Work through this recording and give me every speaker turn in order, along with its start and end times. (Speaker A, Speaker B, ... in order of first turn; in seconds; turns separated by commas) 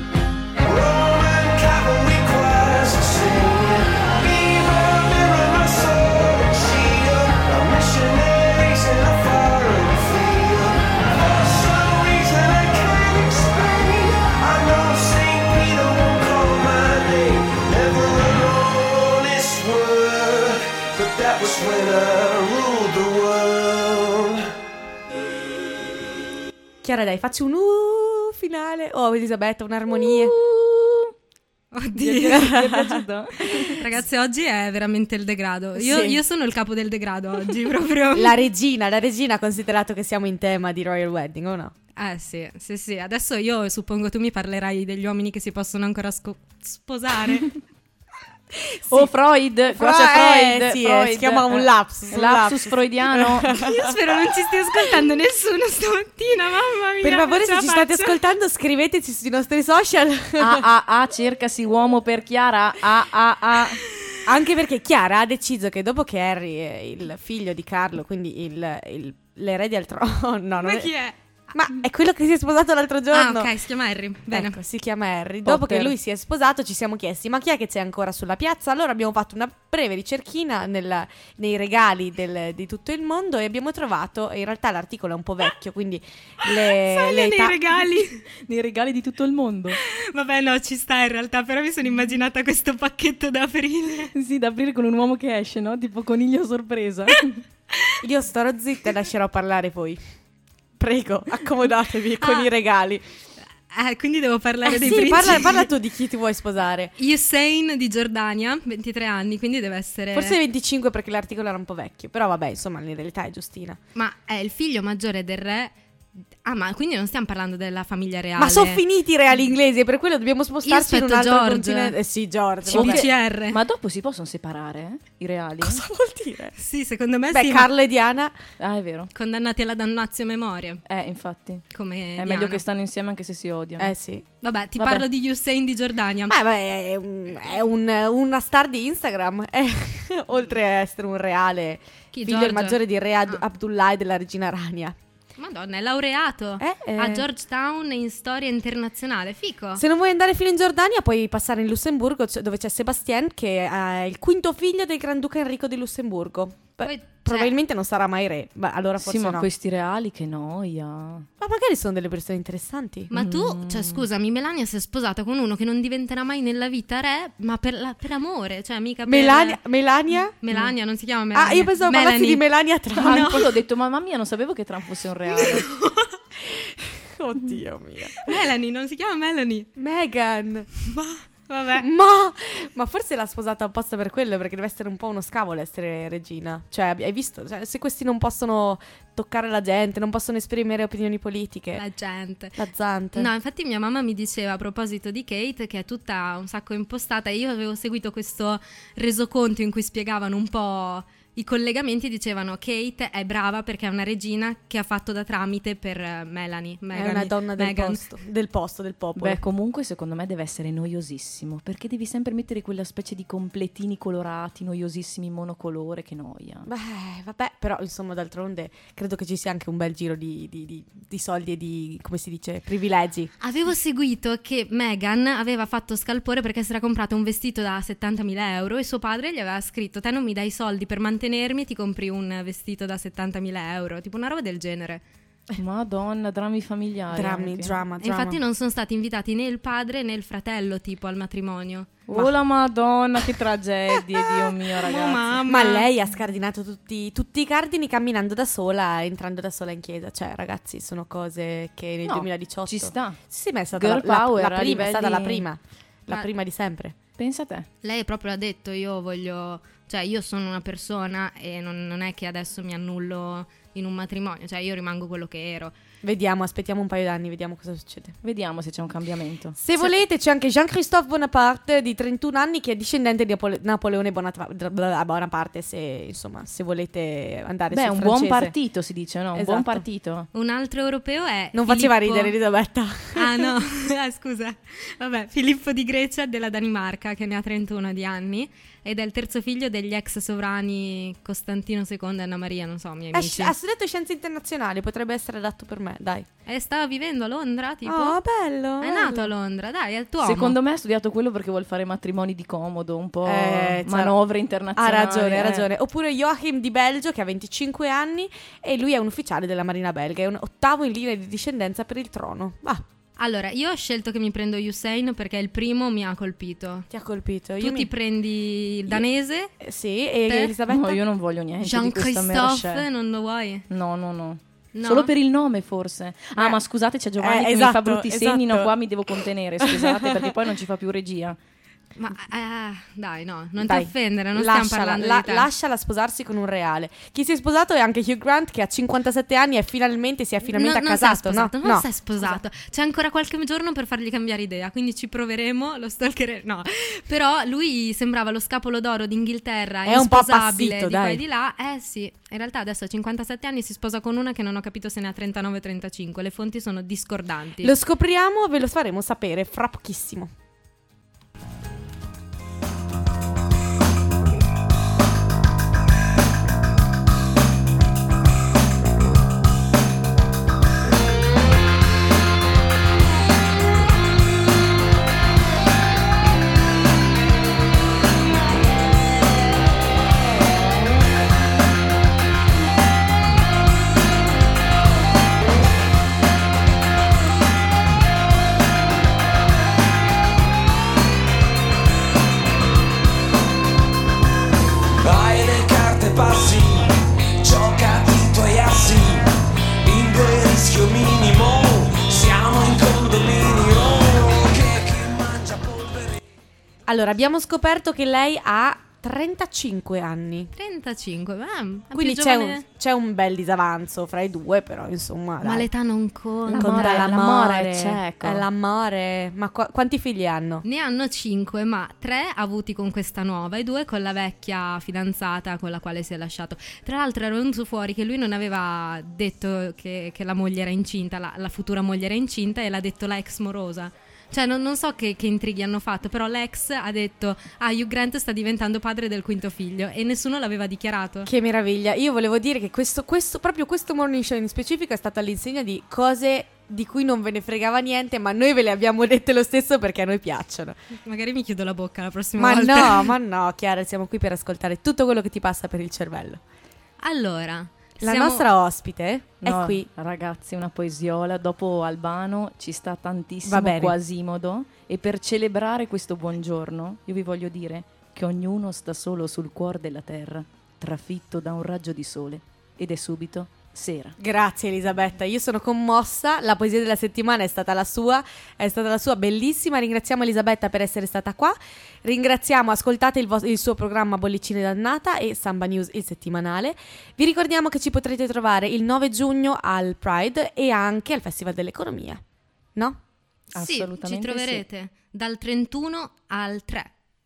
Speaker A: 0.6-24.5, Speaker B: 26.8-30.3, Speaker C: 30.0-31.1, Speaker D: 31.7-32.5, Speaker C: 31.9-33.8, Speaker B: 32.2-33.0, Speaker D: 33.7-38.4, Speaker B: 35.8-36.2, Speaker B: 38.1-41.7, Speaker D: 42.0-47.5, Speaker B: 48.7-49.1, Speaker C: 48.9-53.5, Speaker B: 49.7-54.4, Speaker D: 53.5-58.2, Speaker B: 57.0-60.7, Speaker C: 60.4-63.8, Speaker B: 64.2-70.9, Speaker D: 70.6-71.1, Speaker B: 71.5-73.5, Speaker D: 73.1-74.6, Speaker B: 74.3-87.6, Speaker C: 75.4-75.9, Speaker D: 86.4-88.2, Speaker C: 88.3-89.8, Speaker D: 89.7-94.1, Speaker C: 94.1-97.4, Speaker D: 97.7-98.0, Speaker B: 98.0-100.0, Speaker B: 100.8-103.0, Speaker D: 102.2-102.5, Speaker D: 103.7-105.7, Speaker B: 104.6-106.9, Speaker C: 105.0-105.3, Speaker D: 107.0-110.4, Speaker B: 110.1-113.8, Speaker D: 113.9-115.7, Speaker D: 116.4-118.8, Speaker B: 118.4-123.1, Speaker D: 120.6-122.0, Speaker D: 122.6-123.6, Speaker C: 122.7-125.8, Speaker B: 125.6-126.5, Speaker D: 126.6-127.7, Speaker B: 127.3-128.3, Speaker C: 128.6-129.1, Speaker D: 129.1-130.8, Speaker C: 130.8-131.6, Speaker D: 131.7-132.6, Speaker C: 132.2-133.9, Speaker B: 133.8-134.2, Speaker D: 134.4-136.4, Speaker C: 134.8-135.0, Speaker B: 136.3-144.9, Speaker D: 142.1-143.4, Speaker D: 145.4-149.8, Speaker B: 146.6-147.2, Speaker B: 149.8-159.5, Speaker D: 156.8-157.5, Speaker C: 159.0-161.3, Speaker B: 161.4-163.1, Speaker D: 163.1-169.6, Speaker C: 163.1-164.0, Speaker B: 169.1-170.3, Speaker D: 170.4-173.5, Speaker B: 171.3-173.4, Speaker C: 173.0-175.7, Speaker D: 175.3-176.2, Speaker B: 176.4-178.3, Speaker D: 178.2-179.7, Speaker B: 179.8-180.7, Speaker D: 180.8-181.8, Speaker B: 181.7-191.8, Speaker D: 191.8-208.2, Speaker B: 192.6-193.3, Speaker B: 206.9-209.4, Speaker C: 209.2-216.7, Speaker B: 216.7-223.3, Speaker D: 223.4-235.0, Speaker C: 235.6-237.8, Speaker B: 237.1-238.4, Speaker D: 238.0-241.9, Speaker C: 242.1-245.3, Speaker D: 244.8-245.9, Speaker B: 245.4-256.9, Speaker C: 252.0-253.2, Speaker C: 253.7-255.4, Speaker C: 257.2-257.7, Speaker D: 257.8-265.7, Speaker B: 266.0-268.1, Speaker C: 268.2-269.6, Speaker B: 269.6-278.5, Speaker C: 277.7-280.3, Speaker B: 279.3-279.8, Speaker D: 280.3-282.3, Speaker B: 281.5-283.5, Speaker D: 283.1-293.5, Speaker B: 293.1-296.3, Speaker D: 296.5-298.2, Speaker B: 297.8-299.3, Speaker D: 298.8-300.6, Speaker C: 300.2-305.6, Speaker B: 303.2-304.2, Speaker B: 304.8-312.8, Speaker D: 313.2-316.9, Speaker B: 316.9-317.9, Speaker D: 317.6-319.5, Speaker B: 319.6-321.0, Speaker D: 320.3-320.5, Speaker C: 320.7-322.8, Speaker D: 321.6-323.6, Speaker C: 323.7-331.4, Speaker D: 324.7-325.1, Speaker B: 327.2-330.4, Speaker D: 332.0-335.5, Speaker B: 333.6-342.4, Speaker D: 340.5-357.7, Speaker B: 349.8-351.2, Speaker B: 357.6-360.3, Speaker A: 395.0-406.1, Speaker B: 406.9-410.5, Speaker D: 410.6-412.6, Speaker B: 411.9-415.7, Speaker D: 415.4-417.1, Speaker B: 416.5-420.6, Speaker C: 416.5-418.4, Speaker D: 420.6-441.3, Speaker B: 441.2-450.8, Speaker D: 451.0-453.1, Speaker B: 452.4-456.4, Speaker D: 457.0-458.4, Speaker B: 458.0-459.9, Speaker C: 459.4-474.1, Speaker B: 463.4-464.0, Speaker B: 474.2-492.2, Speaker B: 492.7-493.0, Speaker C: 493.5-494.6, Speaker D: 493.5-496.9